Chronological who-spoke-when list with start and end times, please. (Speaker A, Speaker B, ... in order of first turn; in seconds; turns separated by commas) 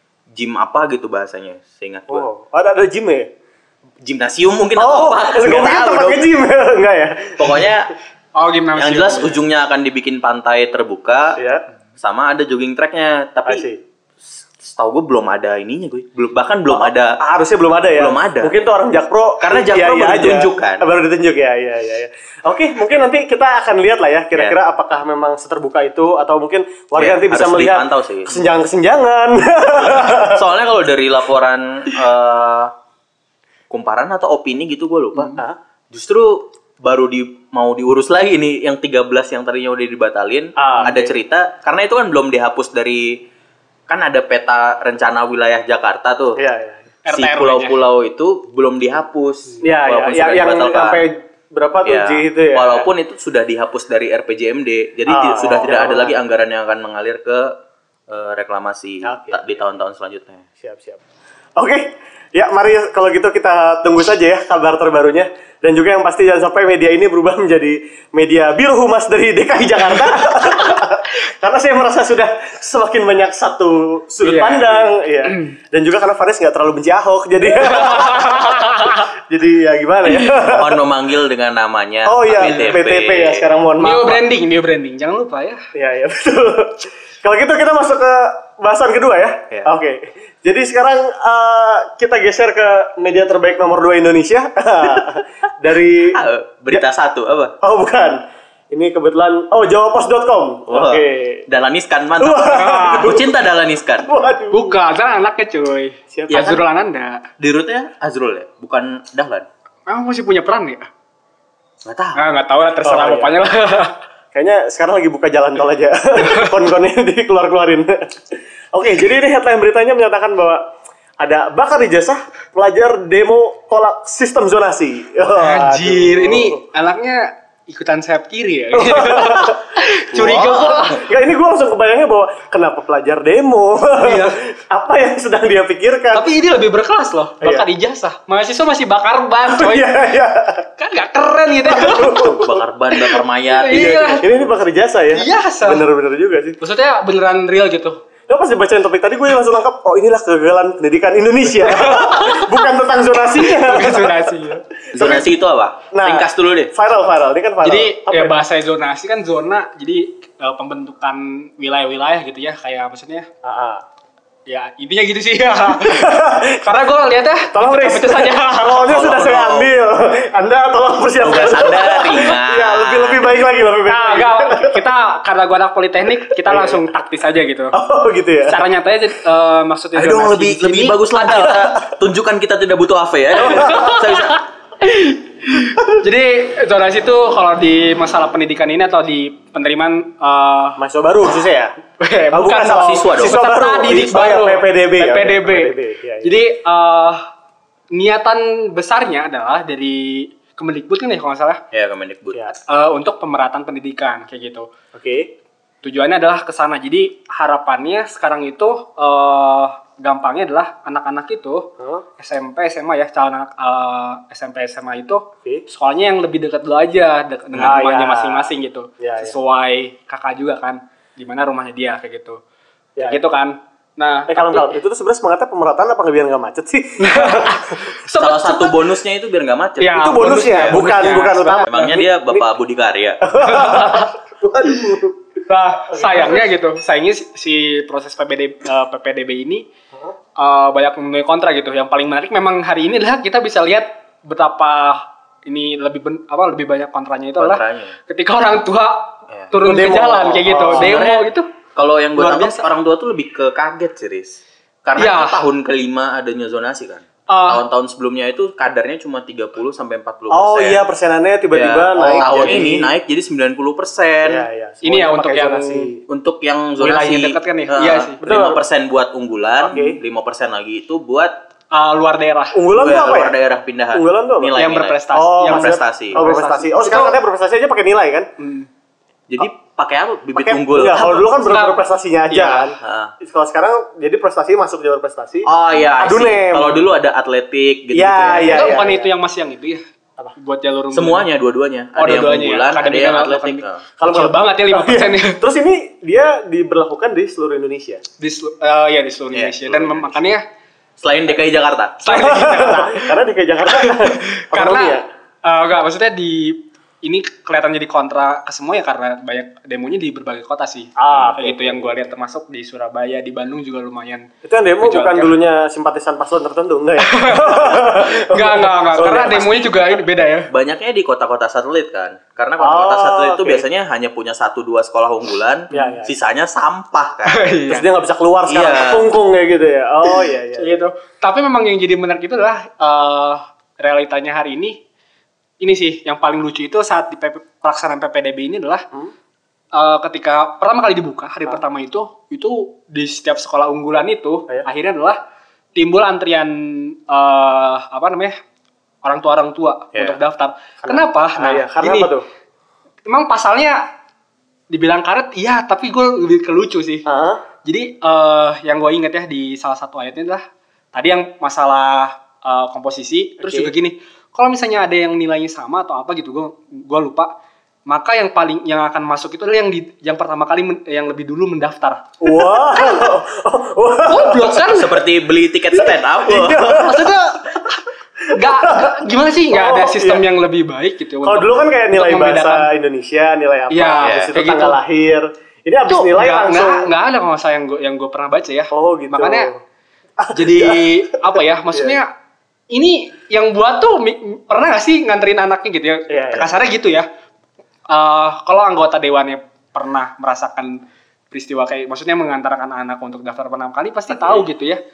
Speaker A: 0.3-2.3, Speaker B: 2.1-3.3, Speaker A: 4.0-6.3, Speaker B: 4.8-7.7, Speaker A: 7.4-7.9, Speaker C: 8.4-9.4, Speaker A: 8.8-11.4, Speaker B: 11.4-11.6, Speaker A: 12.0-13.7, Speaker B: 13.5-13.8, Speaker A: 14.6-17.2, Speaker B: 16.7-30.4, Speaker A: 18.0-18.5, Speaker A: 19.4-20.9, Speaker A: 27.0-28.4, Speaker A: 29.9-32.7, Speaker A: 33.7-35.4, Speaker B: 35.3-35.6, Speaker A: 35.9-43.2, Speaker B: 40.6-41.1, Speaker A: 43.9-46.4, Speaker B: 46.4-46.9, Speaker C: 47.0-47.8, Speaker A: 47.1-51.0, Speaker B: 49.6-52.9, Speaker A: 51.9-57.6, Speaker B: 55.1-56.2, Speaker A: 58.1-60.5, Speaker B: 59.0-59.4, Speaker B: 60.6-61.0, Speaker B: 61.6-80.8, Speaker C: 74.2-75.5, Speaker C: 77.5-79.1, Speaker A: 80.2-83.5, Speaker B: 82.0-84.2, Speaker C: 83.8-85.7, Speaker B: 85.7-96.2, Speaker A: 96.1-97.5, Speaker B: 97.6-101.5, Speaker A: 100.7-104.1, Speaker B: 102.2-103.3, Speaker C: 102.5-103.1, Speaker B: 104.0-104.8, Speaker C: 104.5-107.3, Speaker B: 106.1-106.6, Speaker A: 106.3-106.6, Speaker A: 107.4-109.5, Speaker C: 109.9-110.9, Speaker A: 111.8-112.2, Speaker C: 112.2-114.0, Speaker B: 112.8-113.4, Speaker B: 114.3-120.7, Speaker C: 116.2-116.5, Speaker B: 121.2-126.6, Speaker C: 125.3-131.0, Speaker B: 128.7-136.3, Speaker A: 130.1-130.9, Speaker C: 134.0-134.4, Speaker C: 136.1-139.9, Speaker B: 137.4-137.7, Speaker B: 139.5-140.7, Speaker C: 140.8-142.4, Speaker B: 141.7-142.7, Speaker A: 142.0-144.5, Speaker C: 143.1-144.3, Speaker B: 143.7-146.6, Speaker C: 145.1-145.8, Speaker C: 146.6-148.0, Speaker B: 148.3-155.3, Speaker C: 151.6-152.6, Speaker C: 153.3-154.7, Speaker A: 154.9-156.7, Speaker B: 155.9-158.4, Speaker C: 157.6-163.3, Speaker B: 163.4-163.8, Speaker C: 164.5-169.2, Speaker B: 165.7-166.7, Speaker B: 167.5-174.8, Speaker A: 168.8-169.7, Speaker A: 171.2-173.3, Speaker C: 173.9-177.8, Speaker B: 176.3-176.9, Speaker B: 177.7-178.6, Speaker C: 178.4-181.5, Speaker A: 180.0-184.4, Speaker B: 181.3-181.7, Speaker C: 183.4-190.8, Speaker B: 183.4-183.9, Speaker B: 190.8-191.7, Speaker C: 192.0-197.3, Speaker B: 192.3-196.4, Speaker A: 192.5-194.4, Speaker C: 197.9-201.6, Speaker A: 201.7-202.5, Speaker C: 202.7-204.7, Speaker B: 204.9-205.3, Speaker C: 205.8-222.4, Speaker B: 217.6-219.3, Speaker B: 223.0-223.2, Speaker C: 223.0-224.8, Speaker B: 224.3-227.8, Speaker C: 227.0-228.8, Speaker A: 228.1-231.1, Speaker C: 229.8-231.7, Speaker B: 229.9-232.5, Speaker A: 231.7-233.2, Speaker B: 233.2-235.2, Speaker C: 233.4-234.1, Speaker C: 235.5-239.7, Speaker B: 235.9-236.5, Speaker C: 240.4-251.5, Speaker A: 247.4-248.0, Speaker A: 249.3-251.2, Speaker B: 249.7-251.0, Speaker A: 251.8-260.8, Speaker C: 252.2-252.7, Speaker C: 255.0-255.4, Speaker C: 257.3-257.6, Speaker B: 260.3-262.9, Speaker A: 261.5-264.5, Speaker C: 262.1-262.6, Speaker B: 264.2-266.0, Speaker C: 264.8-265.9, Speaker A: 266.1-271.4, Speaker C: 266.8-268.2, Speaker B: 268.2-268.6, Speaker B: 269.6-270.0, Speaker C: 271.7-272.6, Speaker B: 272.5-273.4, Speaker A: 272.7-276.2, Speaker B: 273.9-274.6, Speaker C: 274.6-277.2, Speaker B: 275.1-278.3, Speaker C: 278.4-278.7, Speaker A: 279.3-281.3, Speaker B: 280.4-286.8, Speaker C: 281.4-282.8, Speaker A: 282.8-283.1, Speaker A: 285.5-288.8, Speaker B: 287.9-289.1, Speaker C: 288.4-289.8, Speaker C: 290.4-291.3, Speaker A: 290.9-293.8, Speaker C: 292.0-295.4, Speaker B: 294.0-298.0, Speaker C: 298.2-300.4, Speaker A: 299.3-300.3, Speaker A: 301.0-302.5, Speaker C: 302.0-303.1, Speaker B: 302.1-305.1, Speaker C: 303.7-314.3, Speaker B: 311.0-312.1, Speaker A: 311.1-311.4, Speaker B: 314.4-320.0, Speaker C: 314.8-315.4, Speaker C: 317.0-320.5, Speaker A: 320.5-327.6, Speaker B: 322.6-323.6, Speaker B: 325.7-326.1, Speaker C: 325.7-326.0, Speaker C: 327.3-327.9, Speaker B: 327.7-330.8, Speaker A: 328.5-329.1, Speaker C: 330.1-334.8, Speaker C: 335.6-338.9, Speaker C: 339.7-345.2, Speaker C: 345.8-348.4, Speaker C: 349.0-352.1, Speaker B: 350.8-352.2, Speaker C: 353.1-353.9, Speaker C: 354.7-357.1, Speaker B: 357.1-357.4, Speaker C: 357.6-367.3, Speaker B: 363.4-363.7, Speaker C: 367.9-373.1, Speaker B: 372.2-374.6, Speaker C: 374.1-374.9, Speaker A: 374.6-377.1, Speaker B: 375.7-379.0, Speaker C: 376.8-382.7, Speaker B: 379.5-380.2, Speaker B: 381.2-386.9, Speaker C: 383.7-384.8, Speaker A: 384.0-384.3, Speaker C: 385.9-389.5, Speaker B: 388.7-389.6, Speaker B: 390.2-392.0, Speaker C: 390.3-392.1, Speaker C: 392.7-397.1, Speaker B: 396.1-396.6, Speaker C: 397.9-404.8